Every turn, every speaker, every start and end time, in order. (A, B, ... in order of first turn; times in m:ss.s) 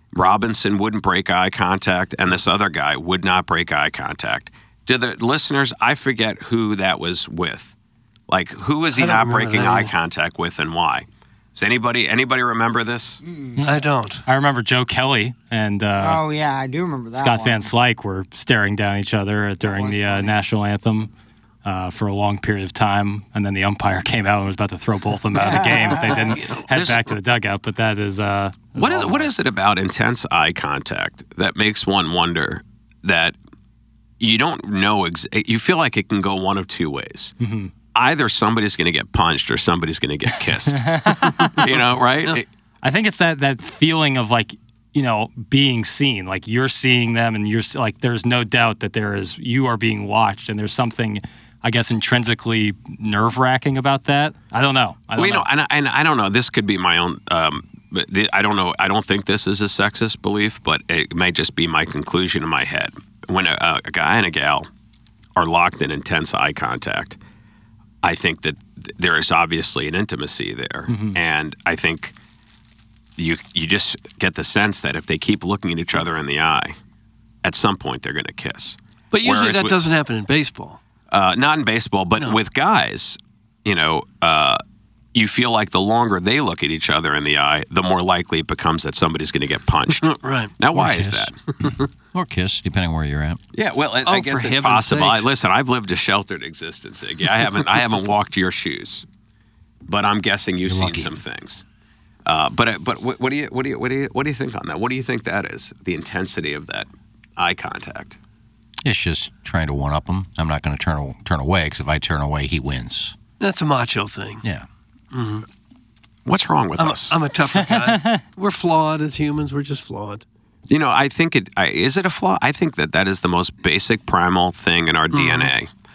0:00.1-0:07.7 A
0:08.3-0:13.2 A
0:09.0-0:09.9 B
0:13.2-0:13.6 C
0:13.6-0:16.2 D
0:13.6-0:14.2 B
0:16.0-0:17.7 C
0:17.2-0:21.1 D
0:19.6-0:20.4 C
0:21.6-0:29.3 D
0:26.4-0:27.2 A
0:28.8-0:33.4 A
0:34.2-0:37.4 A
0:37.4-0:37.7 D
0:37.9-0:42.5 A
0:40.7-0:41.6 D
0:41.2-0:41.6 B
0:42.8-0:55.5 D
0:55.2-1:04.7 A
1:05.4-1:07.2 A
1:08.0-1:12.2 A
1:10.9-1:11.2 D
1:13.2-1:16.8 A
1:17.4-1:19.8 A
1:19.1-1:20.8 B
1:21.1-1:24.6 A
1:25.1-1:31.4 A
1:30.0-1:30.5 B
1:30.7-1:33.4 E
1:33.5-1:39.1 A
1:34.0-1:35.3 B
1:39.9-1:41.6 A
1:40.6-1:41.1 E
1:42.3-1:48.2 A
1:48.8-1:53.2 E
1:53.4-1:54.4 B
1:55.1-1:55.5 B
1:56.2-1:57.2 A
1:56.8-2:00.2 B
1:57.6-1:58.2 D
2:00.7-2:05.7 A
2:05.1-2:05.5 B